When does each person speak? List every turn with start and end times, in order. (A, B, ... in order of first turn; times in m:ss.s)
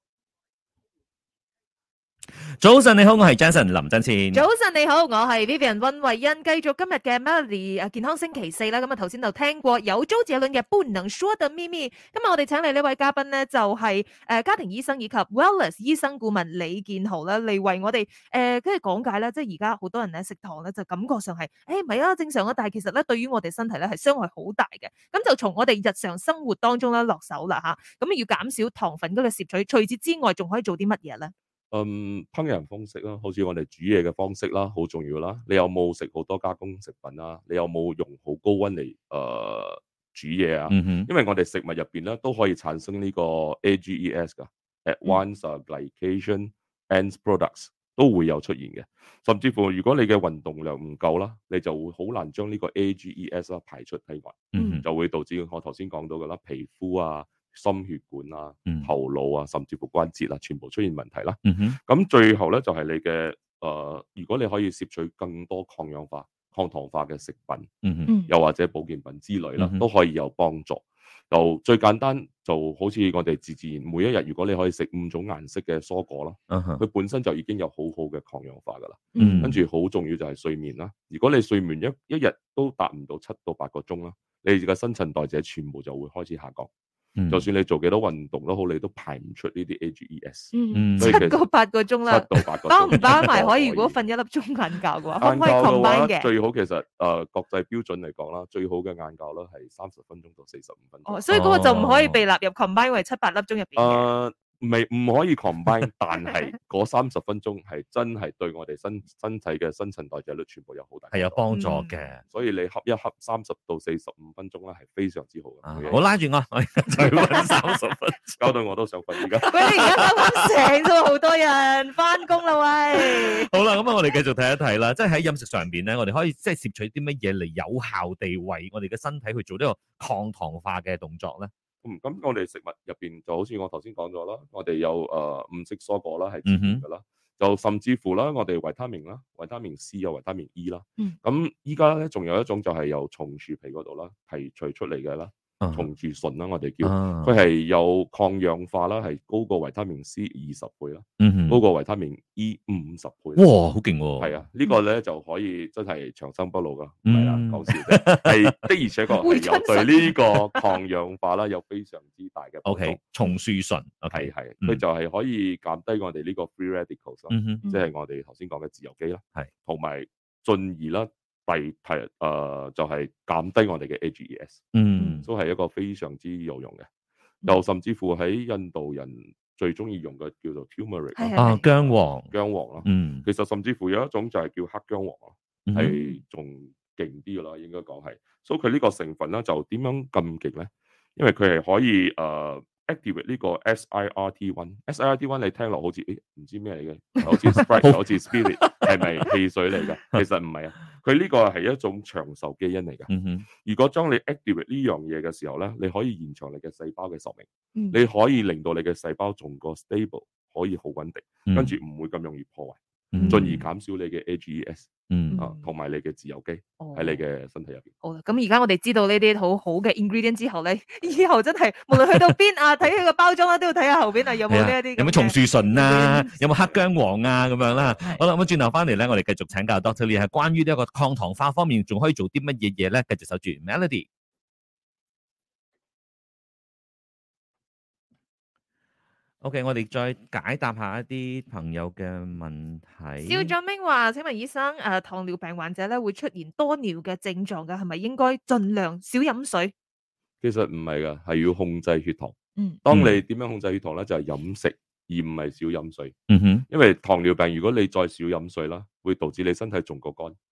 0:02.6-0:04.4 A
0:04.3-0:31.3 B
0:31.7-1:07.7 C
0:40.7-0:41.1 A
0:54.5-0:54.8 A
0:54.5-0:54.8 B
1:01.4-1:01.8 A
1:07.8-1:08.1 A
1:08.3-1:26.7 C
1:09.6-1:09.8 A
1:16.5-1:16.8 A
1:19.1-1:19.5 B
1:19.2-1:19.6 A
1:27.2-1:27.4 A
1:27.3-1:31.4 C
1:30.5-1:36.3 B
1:30.7-1:31.3 A
1:32.1-1:34.0 C
1:32.9-1:33.2 A
1:35.2-1:41.2 C
1:41.0-1:44.1 B
1:41.3-1:42.2 A
1:43.8-1:51.4 C
1:51.1-1:52.2 A
1:51.5-1:52.0 B
1:52.2-1:56.0 C
1:55.6-1:58.5 A
1:56.9-1:57.6 C
1:58.4-2:00.0 C
1:59.2-2:00.5 A
1:59.4-2:03.5 B
2:02.9-2:11.5 A
2:11.8-2:33.5 C
2:16.4-2:16.8 A
2:25.6-2:25.9 A
2:26.8-2:27.3 A
2:31.2-2:31.6 A
2:33.4-2:34.4 A
2:34.2-2:43.0 C
2:37.0-2:38.5 A
2:39.2-2:40.6 B
2:42.6-2:44.8 A
2:44.1-2:54.6 C
2:47.3-2:47.6 A
2:54.7-2:55.3 A
2:55.0-2:55.2 B
2:55.2-2:56.9 C
2:57.4-3:37.9 C
3:01.2-3:01.6 B
3:01.4-3:02.3 A
3:02.8-3:03.2 A
3:05.6-3:05.9 A
3:05.9-3:06.2 B
3:17.4-3:19.0 A
3:23.1-3:23.4 A
3:31.5-3:31.7 A
3:33.1-3:33.6 A
3:33.1-3:33.5 B
3:35.1-3:35.4 A
3:35.3-3:35.6 B
3:36.8-3:37.2 B
3:38.0-3:46.4 B
3:41.9-3:42.4 A
3:44.5-3:54.0 A
3:59.4-4:03.5 A
4:03.2-4:09.7 B
4:10.4-4:16.1 C
4:12.9-4:13.2 A
4:16.3-4:16.6 A
4:16.7-4:20.4 C